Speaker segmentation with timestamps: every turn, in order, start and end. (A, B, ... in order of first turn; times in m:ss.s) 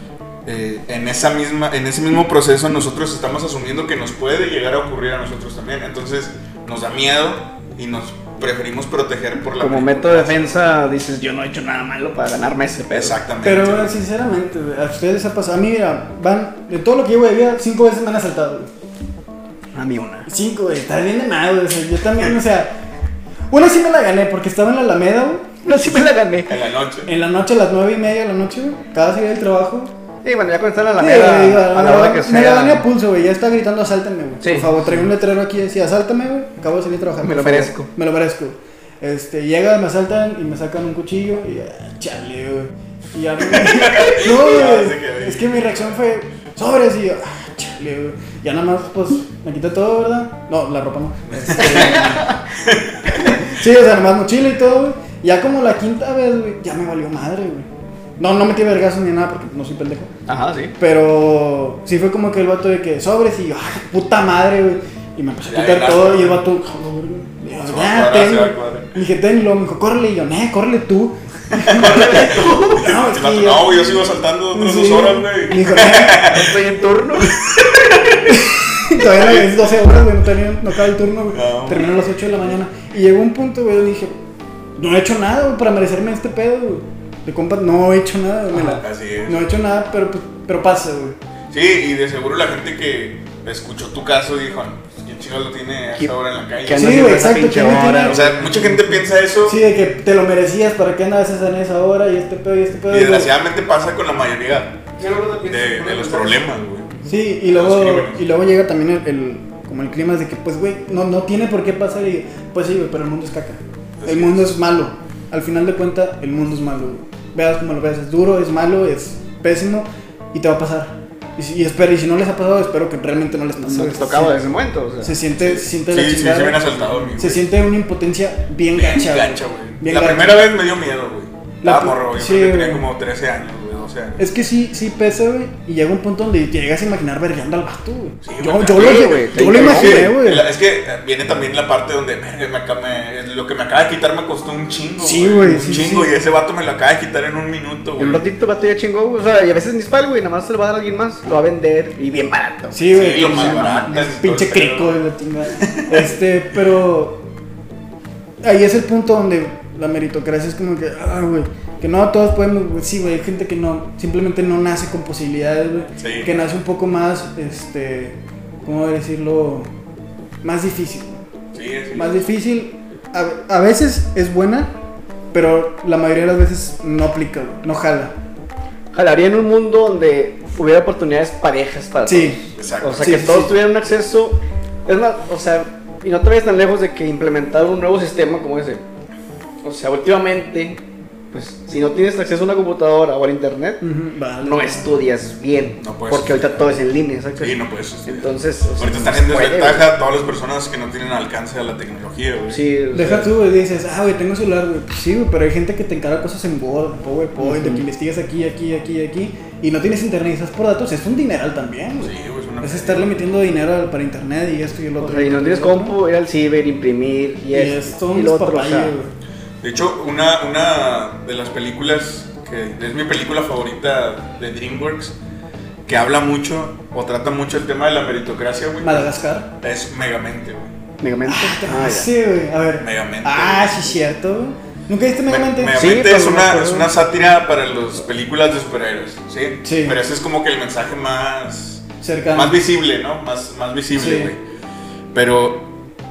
0:00.4-0:10.7 A
0:09.6-0:13.2 B
0:12.9-0:13.9 A
0:13.4-0:18.7 C
0:19.7-0:20.3 B
0:20.3-0:22.8 C
0:23.5-0:25.5 C
0:25.6-0:26.6 B
0:26.5-0:27.1 A
0:27.1-0:29.9 C
0:30.2-0:32.8 B
0:31.0-0:52.4 C
0:34.4-0:34.8 B
0:37.2-0:37.9 B
0:43.5-0:46.0 A
0:51.3-0:52.1 A
0:51.6-0:52.4 B
0:52.6-0:53.4 A
0:53.4-0:57.7 C
0:58.2-1:00.1 C
1:00.3-1:00.7 B
1:00.8-1:13.8 C
1:05.5-1:06.4 A
1:07.6-1:08.9 A
1:11.5-1:16.6 A
1:11.8-1:12.9 B
1:14.5-1:16.2 C
1:16.3-1:17.4 B
1:17.2-1:18.4 A
1:18.3-1:24.1 C
1:19.0-1:20.1 A
1:21.3-1:21.9 A
1:24.8-1:31.2 C
1:28.5-1:28.8 B
1:28.8-1:29.4 A
1:31.5-1:37.3 A
1:36.6-1:38.3 B
1:36.8-1:43.3 C
1:38.1-1:39.6 A
1:42.9-1:44.8 A
1:45.0-1:46.4 B
1:45.5-1:48.3 A
1:47.0-2:04.4 C
1:54.0-1:54.5 A
2:03.7-2:05.1 B
2:05.0-2:06.6 C
2:05.4-2:07.5 A
2:07.2-2:10.4 C
2:08.7-2:14.2 A
2:11.6-2:12.8 C
2:14.2-2:20.4 C
2:18.2-2:28.3 A
2:18.7-2:20.1 B
2:25.0-2:26.1 C
2:28.0-2:33.8 B
2:32.7-2:37.3 C
2:32.9-2:35.0 A
2:35.6-2:36.1 A
2:38.4-2:49.7 C
2:46.0-2:46.3 A
2:50.4-2:51.2 C
2:51.5-2:52.3 A
2:51.9-2:54.7 C
2:55.3-2:58.1 C
2:58.9-3:08.8 B
3:02.0-3:02.4 C
3:02.6-3:03.3 A
3:03.0-3:03.5 C
3:09.6-3:10.8 B
3:11.3-3:13.8 B
3:13.8-3:14.8 C
3:14.4-3:19.8 B
3:15.8-3:16.4 A
3:17.4-3:22.6 A
3:22.5-3:23.3 B
3:22.9-3:36.0 C
3:27.4-3:27.8 B
3:32.0-3:33.2 A
3:35.0-3:38.9 B
3:37.5-3:39.1 C
3:39.6-3:45.1 A
3:45.8-3:50.7 A
3:48.8-3:49.5 C
3:51.0-3:52.1 B
3:51.2-3:55.9 C
3:52.8-3:53.8 A
3:55.3-4:04.4 A
3:55.7-3:56.9 B
3:59.6-4:00.0 C
4:02.0-4:02.6 C
4:04.0-4:04.3 C
4:05.1-4:05.7 A